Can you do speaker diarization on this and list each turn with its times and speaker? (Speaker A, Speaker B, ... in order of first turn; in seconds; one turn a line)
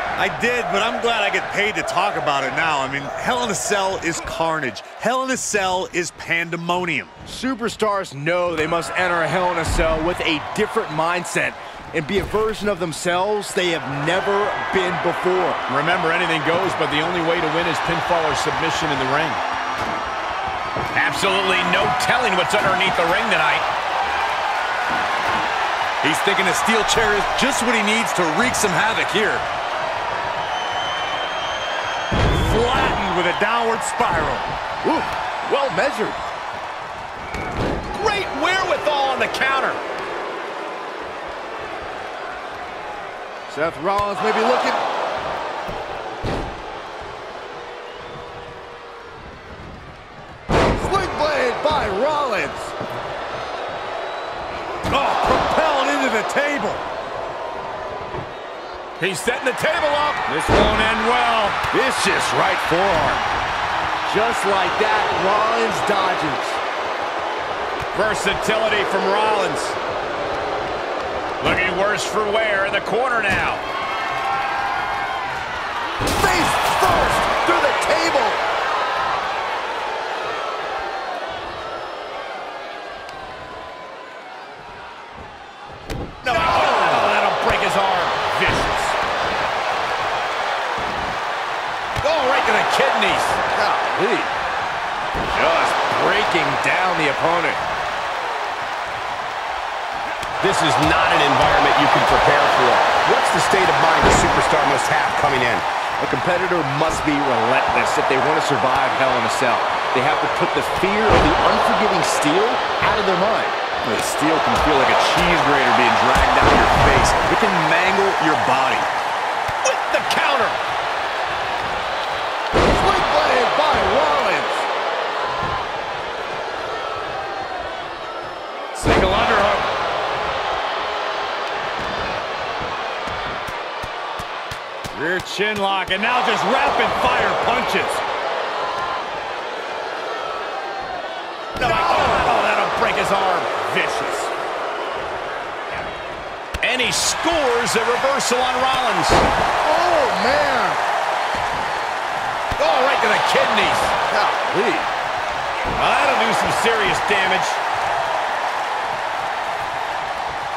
Speaker A: 0.1-7.2
Speaker B: 7.2-15.6
Speaker C: 15.7-19.4
Speaker C: 20.9-23.6
Speaker A: 26.0-29.4
Speaker A: 32.3-34.5
Speaker B: 34.8-36.2
Speaker C: 37.9-39.8
Speaker B: 43.5-44.8
Speaker B: 50.7-52.7
Speaker A: 54.9-56.8
Speaker C: 59.0-60.3
Speaker A: 60.3-61.7
Speaker B: 61.6-63.2
Speaker B: 64.0-66.6
Speaker C: 67.9-69.8
Speaker C: 71.4-73.6
Speaker B: 76.1-78.4
Speaker C: 86.2-89.0
Speaker B: 86.2-87.1
Speaker C: 92.0-93.4
Speaker B: 93.5-94.3
Speaker A: 95.3-96.9
Speaker B: 96.0-97.6
Speaker C: 100.4-105.7
Speaker B: 106.0-113.7
Speaker A: 113.8-118.9
Speaker C: 119.6-120.6
Speaker B: 122.7-124.7
Speaker A: 128.7-129.7
Speaker A: 134.9-138.0
Speaker C: 141.6-144.3
Speaker C: 146.6-149.3
Speaker B: 149.6-150.8
Speaker C: 152.6-153.9
Speaker B: 154.1-154.8
Speaker A: 154.5-154.9
Speaker C: 155.7-157.6